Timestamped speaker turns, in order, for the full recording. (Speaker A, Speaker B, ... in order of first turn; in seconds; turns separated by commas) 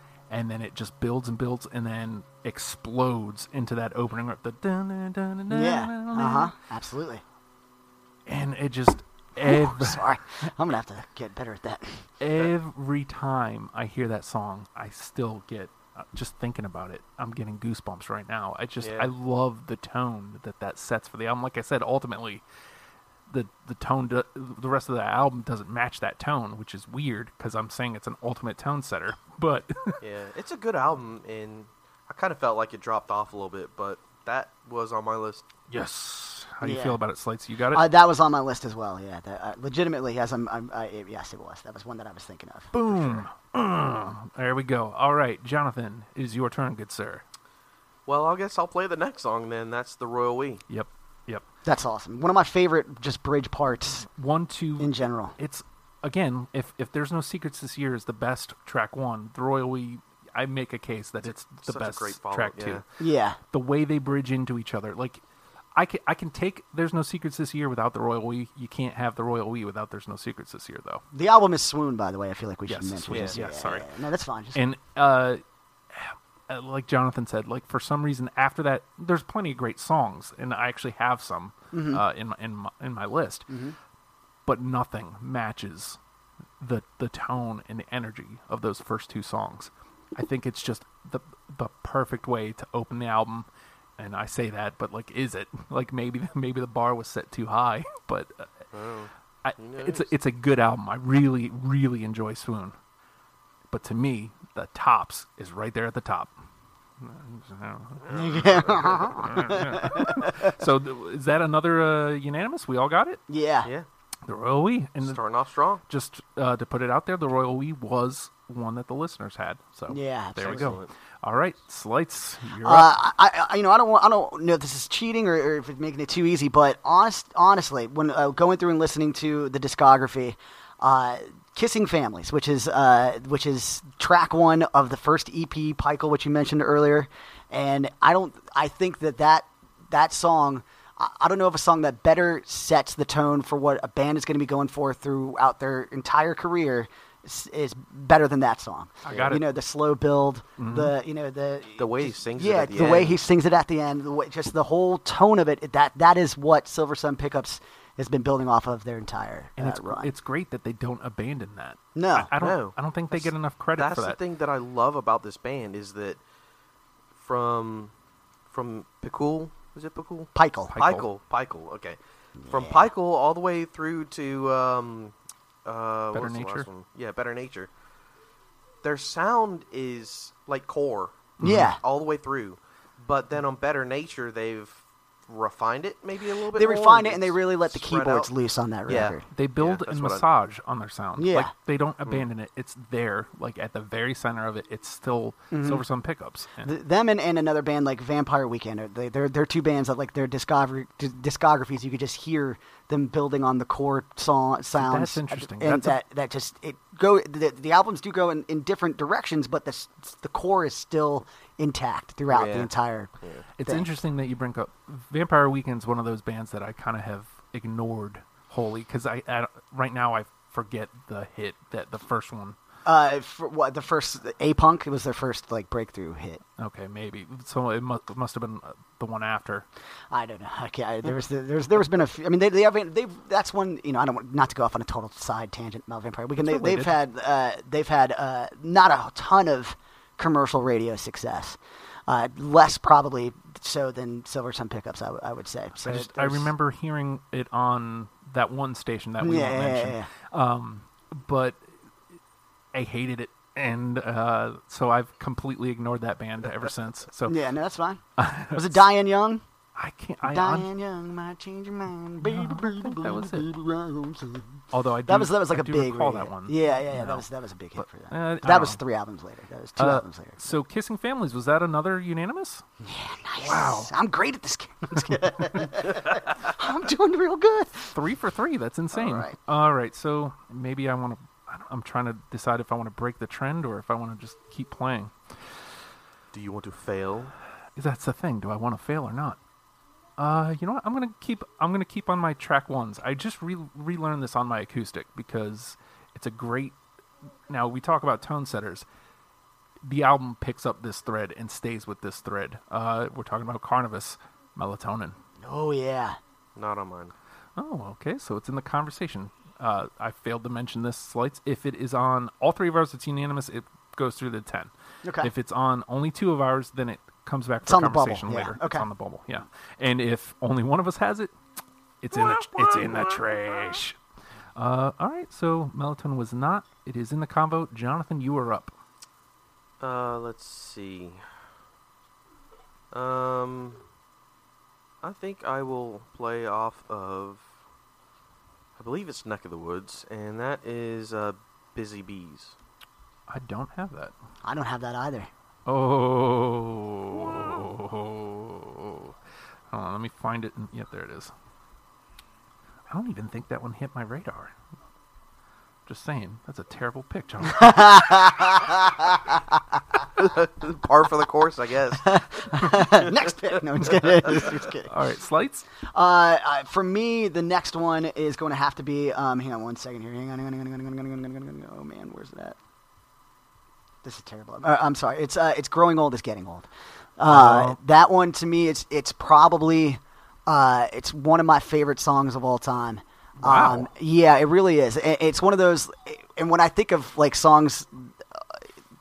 Speaker A: 0.3-6.5, Speaker B: 5.5-7.2, Speaker A: 8.2-10.5, Speaker B: 9.4-12.1, Speaker A: 12.2-22.4, Speaker C: 18.8-19.1, Speaker A: 23.3-30.0, Speaker C: 30.0-35.5, Speaker A: 35.7-37.8, Speaker B: 36.6-37.0, Speaker B: 37.7-43.2, Speaker A: 42.7-47.2, Speaker C: 48.1-50.6, Speaker A: 50.7-51.4, Speaker B: 51.6-54.1, Speaker A: 54.1-62.8, Speaker B: 54.8-55.3, Speaker C: 61.2-62.8, Speaker B: 63.0-63.4, Speaker A: 63.5-65.2, Speaker A: 65.7-71.0, Speaker B: 71.1-74.6, Speaker A: 72.7-73.9, Speaker C: 73.1-73.4, Speaker A: 74.5-75.4, Speaker A: 75.9-83.5, Speaker B: 81.7-82.0, Speaker B: 83.5-83.8, Speaker A: 84.5-86.0, Speaker A: 86.6-93.5, Speaker A: 94.0-98.6, Speaker C: 98.7-100.1, Speaker A: 99.4-102.7, Speaker A: 103.7-106.3, Speaker A: 107.0-113.2, Speaker C: 108.0-109.1, Speaker B: 108.1-110.5, Speaker B: 113.3-113.7, Speaker A: 114.2-115.2, Speaker C: 115.0-115.8, Speaker A: 115.9-122.9, Speaker B: 119.9-120.8, Speaker C: 120.4-120.9, Speaker B: 122.6-160.1, Speaker A: 149.0-149.4, Speaker A: 150.6-150.9, Speaker C: 151.8-153.2, Speaker A: 159.6-164.2, Speaker B: 161.9-162.3, Speaker C: 162.4-166.2, Speaker C: 167.1-167.9, Speaker C: 168.5-175.1, Speaker B: 170.3-170.7, Speaker A: 170.7-171.1, Speaker B: 172.4-172.9, Speaker C: 175.6-177.7, Speaker A: 176.1-176.7, Speaker C: 178.8-188.3, Speaker A: 181.4-181.8, Speaker B: 181.4-181.8, Speaker B: 186.5-189.2, Speaker C: 188.9-190.2, Speaker A: 189.3-196.7, Speaker B: 191.2-191.5, Speaker B: 195.5-195.8, Speaker B: 196.6-213.1, Speaker A: 204.7-206.0, Speaker C: 212.3-212.7, Speaker A: 213.6-222.6, Speaker B: 222.8-226.4, Speaker A: 226.6-229.7, Speaker B: 230.1-246.5, Speaker A: 236.4-236.9, Speaker A: 245.8-251.7, Speaker B: 249.2-250.1, Speaker A: 252.7-257.4, Speaker B: 257.3-259.4, Speaker A: 258.2-258.8, Speaker A: 259.8-260.7, Speaker B: 260.2-270.4, Speaker A: 262.2-263.5, Speaker A: 264.7-267.2, Speaker A: 267.8-268.8, Speaker A: 269.8-272.6, Speaker B: 272.8-278.0, Speaker A: 273.4-273.9, Speaker A: 277.9-285.1, Speaker B: 278.9-279.3, Speaker C: 286.3-287.3, Speaker A: 287.8-289.4, Speaker A: 290.2-296.8, Speaker A: 297.5-298.9, Speaker A: 299.8-305.2, Speaker B: 305.4-306.2, Speaker C: 306.6-307.1, Speaker A: 307.6-321.3, Speaker B: 315.0-315.3, Speaker B: 317.6-318.9, Speaker A: 322.0-324.0, Speaker C: 322.1-323.2, Speaker A: 324.6-328.8, Speaker C: 329.8-331.3, Speaker C: 332.9-333.8, Speaker C: 335.0-337.5, Speaker C: 338.8-342.6, Speaker A: 343.3-344.1, Speaker B: 344.4-345.3, Speaker A: 345.6-349.2, Speaker A: 349.7-351.3, Speaker A: 352.9-354.5, Speaker A: 355.9-358.6, Speaker B: 357.4-359.6, Speaker C: 360.2-362.6, Speaker B: 362.0-364.9, Speaker A: 364.3-365.7, Speaker B: 365.8-372.6, Speaker B: 374.0-388.6, Speaker A: 377.2-377.8, Speaker A: 383.4-383.9